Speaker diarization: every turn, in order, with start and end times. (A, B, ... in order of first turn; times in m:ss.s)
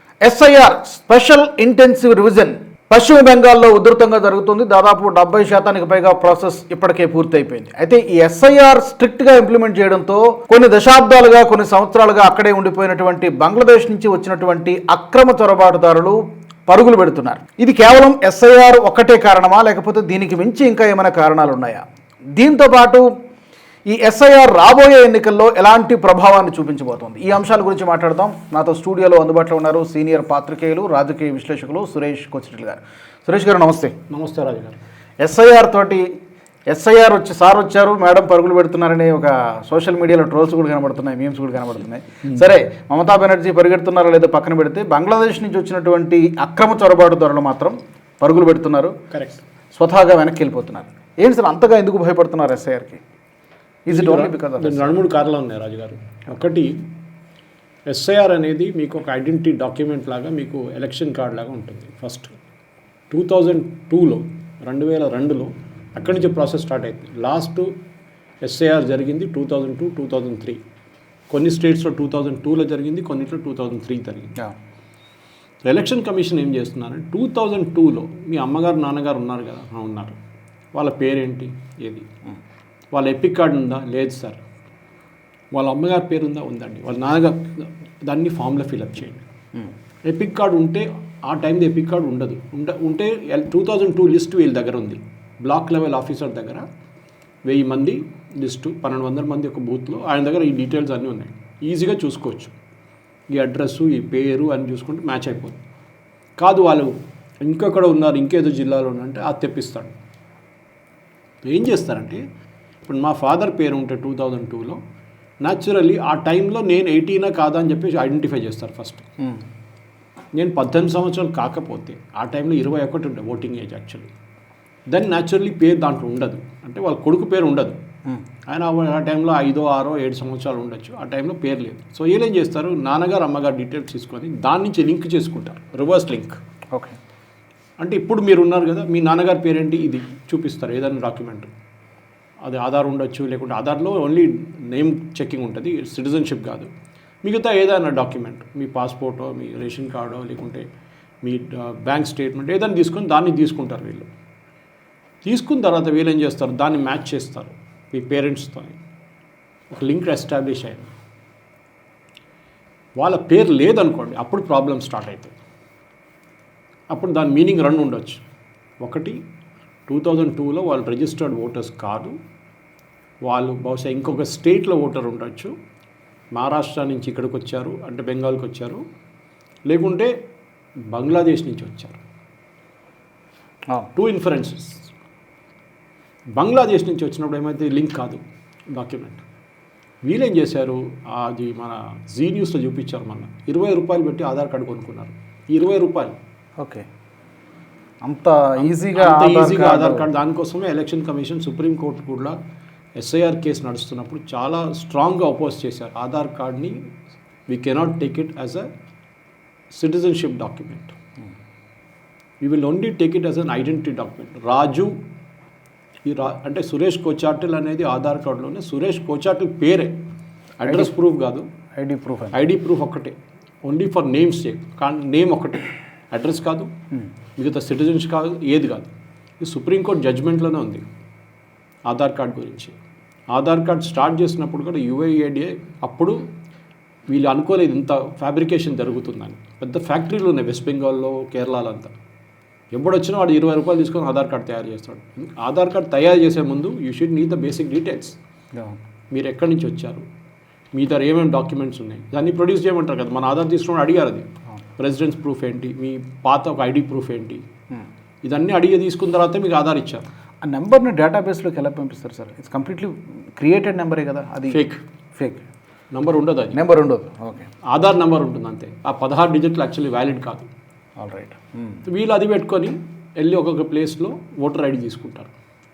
0:00.2-0:23.1 A
0:23.8-0:34.0 A
0:34.1-0:34.8 B
0:35.2-0:36.0 A
0:36.7-0:48.9 A
0:49.1-0:49.4 B
0:49.7-0:53.0 A
0:53.9-0:55.0 A
0:53.9-0:56.8 B
0:57.9-1:02.4 B
1:03.1-1:07.8 B
1:08.4-1:10.6 B
1:11.3-1:14.4 B
1:15.6-1:20.2 B
1:20.7-1:22.0 B
1:22.9-1:24.4 B
1:25.5-1:29.2 B
1:30.0-1:36.6 B
1:37.4-1:42.5 B
1:43.3-1:45.6 B
1:46.4-1:49.9 B
1:51.4-1:52.2 B
1:52.8-1:54.8 B
1:55.4-1:59.0 B
2:00.3-2:04.1 B
2:04.9-2:07.8 B
2:08.5-2:16.4 B
2:17.8-2:21.5 B
2:22.4-2:26.7 B
2:27.2-2:30.6 B
2:31.2-2:34.1 B
2:35.2-2:38.8 B
2:39.7-2:40.9 B
2:43.0-2:45.3 B
2:46.9-2:48.2 B
2:48.8-2:49.2 B
2:49.9-2:52.2 B
2:53.2-2:55.5 B
2:56.3-2:58.8 B
2:59.7-3:00.1 B
3:00.9-3:02.0 B
3:03.9-3:04.9 B
3:06.4-3:08.2 B
3:08.7-3:09.2 B
3:10.0-3:16.2 B
3:16.6-3:16.8 A
3:18.0-3:20.1 A
3:18.9-3:22.4 B
3:23.0-3:26.8 B
3:27.5-3:28.7 B
3:29.7-3:30.9 B
3:32.4-3:34.9 B
3:36.0-3:40.0 B
3:40.6-3:41.4 B
3:40.6-3:40.9 A
3:41.8-3:42.4 A
3:42.3-3:46.7 B
3:47.4-3:50.8 B
3:51.9-3:52.7 B
3:53.3-3:56.2 B
3:57.1-4:01.9 B
4:02.7-4:08.2 B
4:09.1-4:10.0 B
4:10.7-4:14.2 B
4:14.8-4:17.4 B
4:18.2-4:20.0 B
4:20.4-4:24.6 A
4:24.5-4:24.8 B
4:25.1-4:25.4 A
4:25.9-4:26.6 B
4:26.5-4:27.5 A
4:27.6-4:30.5 B
4:31.0-4:31.8 A
4:31.8-4:35.3 B